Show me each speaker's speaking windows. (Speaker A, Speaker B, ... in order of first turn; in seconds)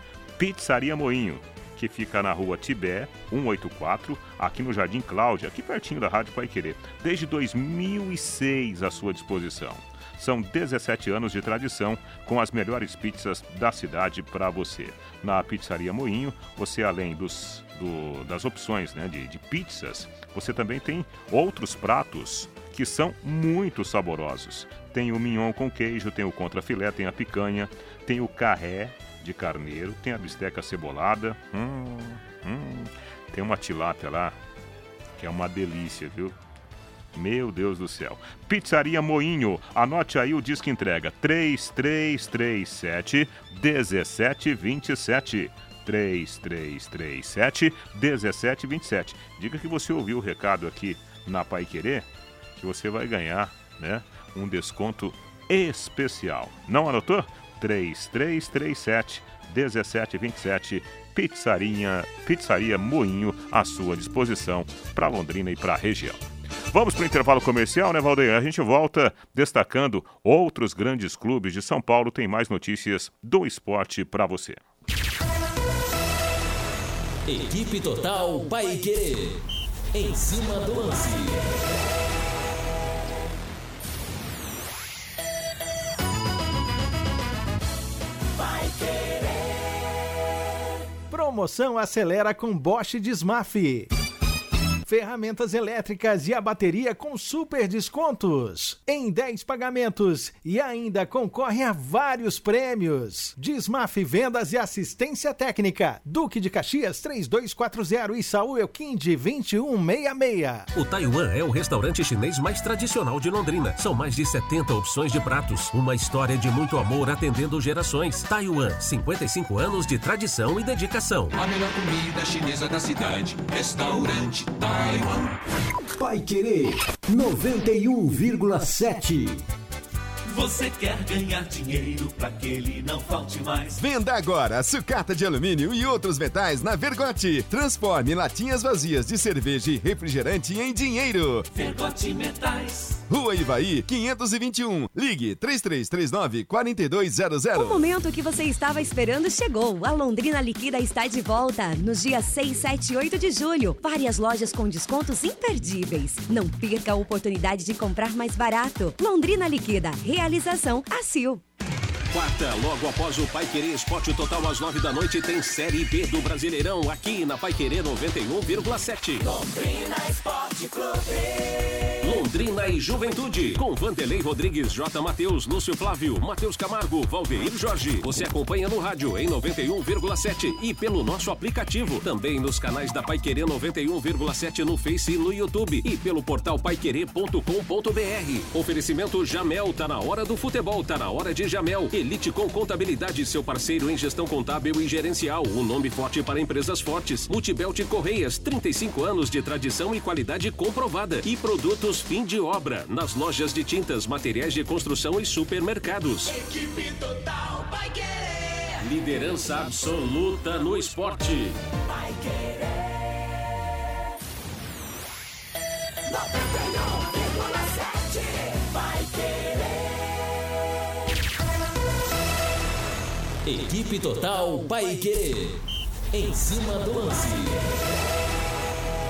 Speaker A: 0.4-34.4, 35.2-36.3, 37.1-74.6
Speaker B: 77.2-81.6, 223.4-227.7
Speaker C: 91.1-93.9, 94.9-110.7
Speaker D: 110.7-121.3, 162.1-169.3, 172.0-206.3, 208.8-211.6
Speaker E: 121.3-125.4, 130.3-133.8, 141.5-143.0
Speaker F: 125.9-129.4
Speaker G: 133.8-141.5, 143.1-147.8
Speaker H: 147.5-161.4